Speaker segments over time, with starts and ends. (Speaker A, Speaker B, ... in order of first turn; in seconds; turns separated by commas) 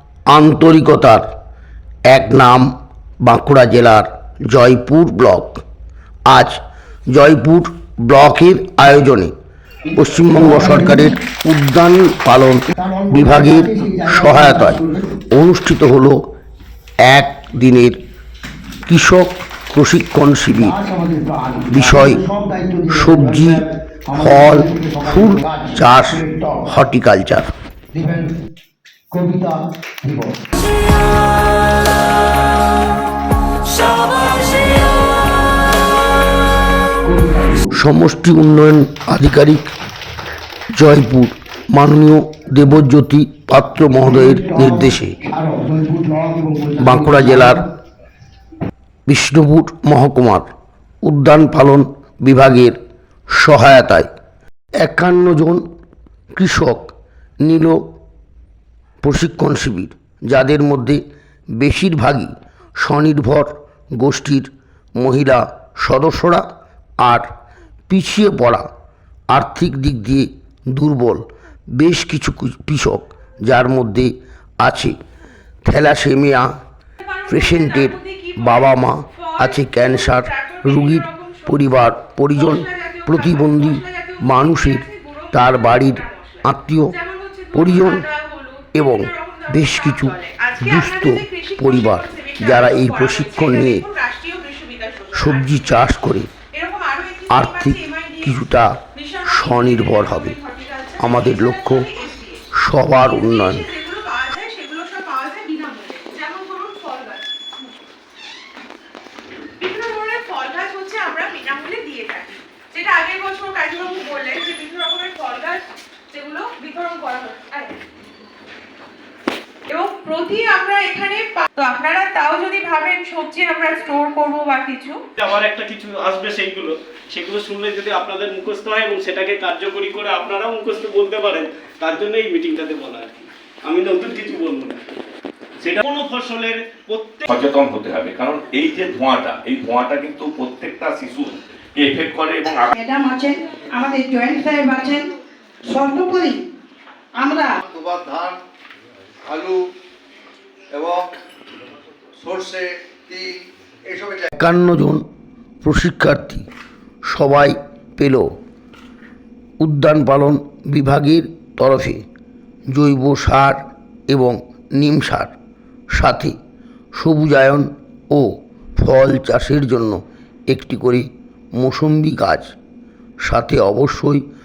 Speaker A: 0.3-1.2, Speaker A: 2.1-2.7, Speaker A: 3.2-5.6, Speaker A: 6.3-6.6, Speaker A: 7.1-9.3, Speaker A: 9.9-16.2, Speaker B: 10.3-11.1, Speaker B: 12.7-15.1, Speaker A: 17.0-18.0, Speaker A: 18.9-20.7, Speaker B: 20.6-26.6, Speaker A: 21.7-22.2, Speaker A: 22.9-23.6, Speaker A: 24.1-27.5, Speaker B: 27.9-28.3, Speaker B: 29.1-30.3, Speaker B: 37.0-37.7, Speaker A: 37.8-39.6, Speaker A: 40.7-45.2, Speaker B: 44.1-47.6, Speaker A: 46.8-47.6, Speaker A: 49.1-50.5, Speaker A: 51.0-52.8, Speaker A: 53.3-54.1, Speaker A: 54.8-55.6, Speaker A: 56.3-56.9, Speaker A: 57.4-57.8, Speaker A: 59.0-61.0, Speaker A: 61.6-66.4, Speaker A: 67.0-67.3, Speaker A: 67.9-68.7, Speaker A: 69.3-71.2, Speaker A: 71.8-74.1, Speaker A: 74.6-74.9, Speaker A: 75.6-76.5, Speaker C: 77.0-95.8, Speaker A: 77.3-87.0, Speaker A: 87.5-88.0, Speaker A: 88.7-93.8, Speaker A: 95.1-96.3, Speaker C: 96.5-107.5, Speaker A: 97.3-98.7, Speaker A: 99.2-100.3, Speaker A: 101.0-101.9, Speaker A: 102.6-103.7, Speaker C: 109.6-117.8, Speaker C: 119.7-125.0, Speaker D: 125.2-134.8, Speaker D: 135.6-137.3, Speaker E: 137.3-142.7, Speaker F: 142.7-145.1, Speaker F: 145.7-146.4, Speaker F: 147.2-147.6, Speaker G: 147.6-148.4, Speaker G: 149.2-149.6, Speaker G: 150.7-151.1, Speaker G: 152.2-153.3, Speaker G: 153.8-154.3, Speaker A: 154.3-155.0, Speaker A: 155.6-156.4, Speaker A: 157.1-158.3, Speaker A: 159.6-162.0, Speaker A: 162.7-165.3, Speaker A: 165.9-166.3, Speaker A: 166.9-170.0, Speaker A: 170.5-171.1, Speaker A: 171.6-172.5, Speaker A: 173.2-174.2